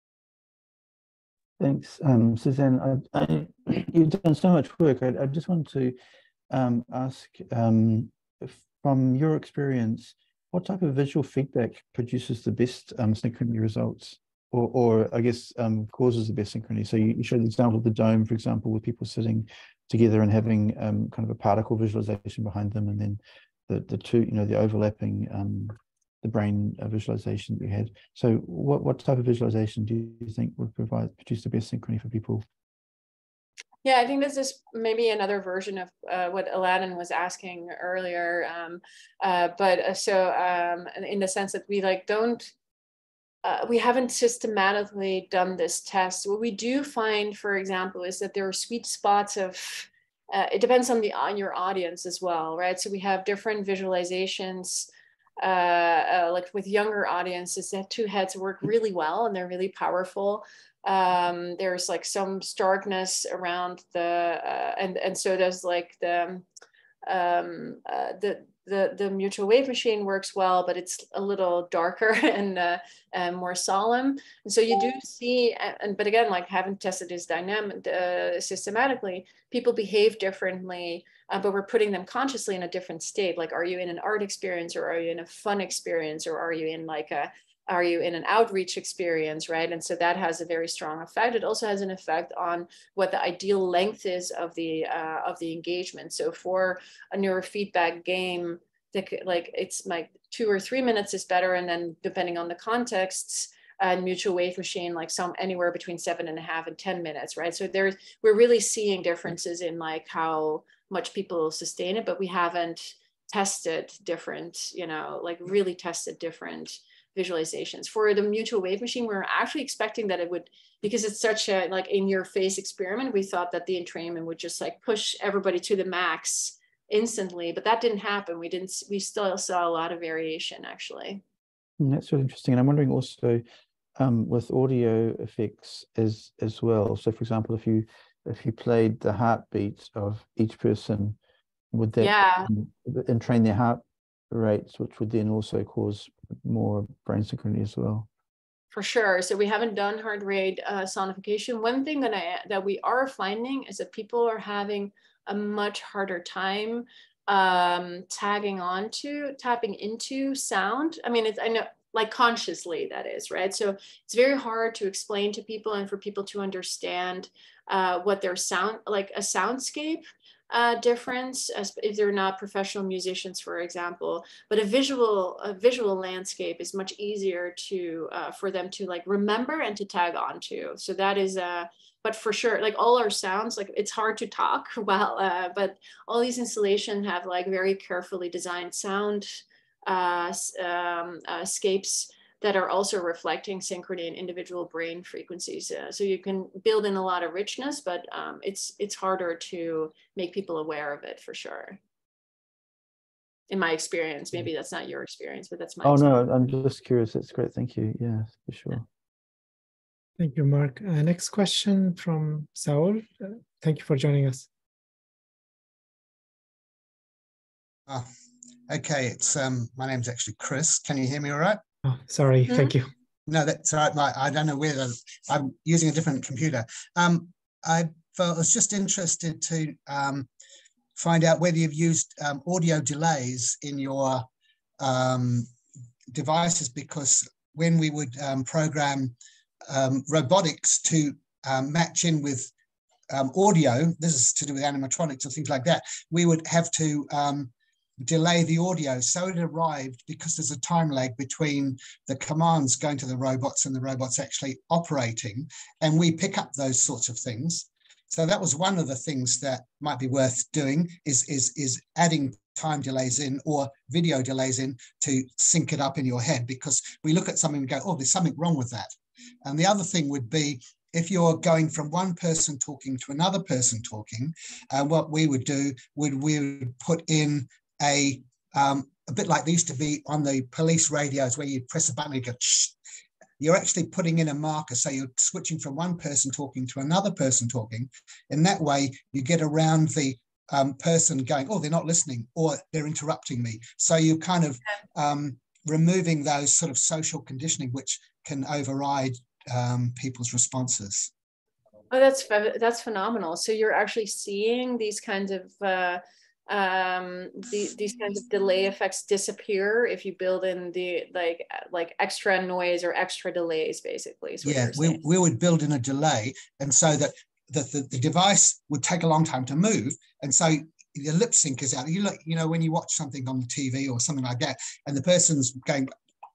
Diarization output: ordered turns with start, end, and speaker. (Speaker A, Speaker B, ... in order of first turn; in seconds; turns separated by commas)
Speaker A: 1.6-6.0, Speaker A: 6.5-32.4, Speaker B: 33.8-42.5, Speaker B: 43.4-54.9, Speaker B: 55.4-66.5, Speaker B: 67.0-131.2, Speaker A: 131.8-133.4, Speaker A: 134.0-141.2, Speaker A: 141.7-148.1, Speaker B: 142.0-142.5, Speaker B: 148.7-201.8, Speaker B: 203.5-206.1, Speaker A: 205.8-208.8, Speaker C: 210.2-214.5, Speaker D: 218.7-221.6, Speaker C: 221.8-222.9, Speaker B: 222.5-222.7, Speaker D: 223.3-230.3, Speaker D: 230.9-234.2, Speaker D: 234.8-235.5, Speaker D: 236.1-239.1, Speaker D: 239.7-242.5, Speaker D: 243.1-268.9, Speaker D: 269.4-282.7, Speaker D: 283.4-301.1, Speaker B: 301.9-315.0, Speaker D: 314.4-325.9